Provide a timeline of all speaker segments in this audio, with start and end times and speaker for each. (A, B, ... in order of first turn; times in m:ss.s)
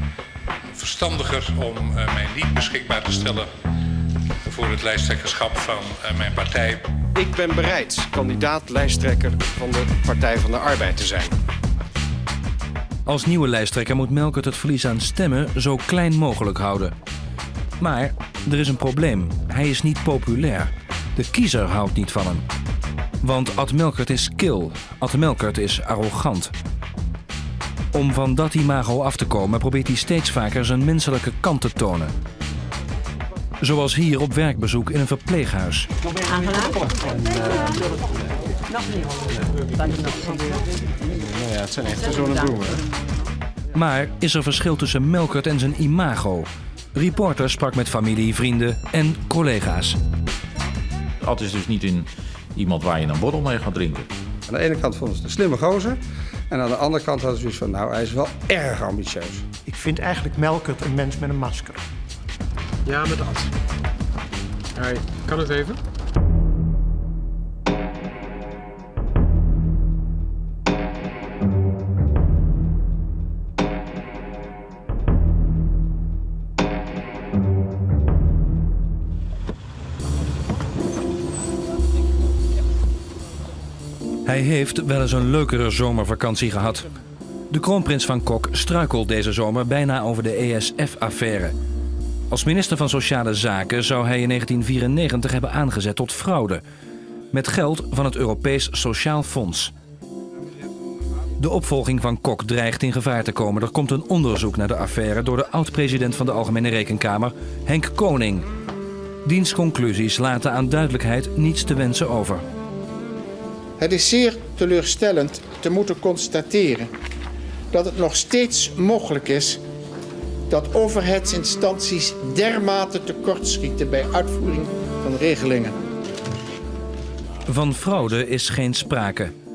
0:00.7-0:03.5 A
0:04.5-0:06.8 A
0:07.1-0:11.4 B
0:13.0-0:16.9 C
0:17.8-0:22.4 C
0:23.2-0:26.5 C
0:27.9-0:32.1 C
0:33.6-0:35.9 C
0:37.2-0:37.7 B
0:39.8-0:40.2 B
0:41.0-0:42.8 B
0:43.7-0:50.0 C
0:51.2-0:54.1 D
0:54.5-0:56.0 E
0:56.5-0:59.5 E
0:59.7-1:01.8 F
1:02.8-1:03.5 B
1:04.8-1:05.8 B
1:24.2-1:26.9 C
1:27.5-1:31.6 C
1:32.3-1:36.6 C
1:37.3-1:39.7 C
1:41.4-1:48.5 C
1:49.2-1:52.4 C
1:53.8-1:56.8 G
1:57.7-1:59.6 G
2:00.5-2:04.0 G
2:05.0-2:05.7 G
2:07.4-2:09.3 C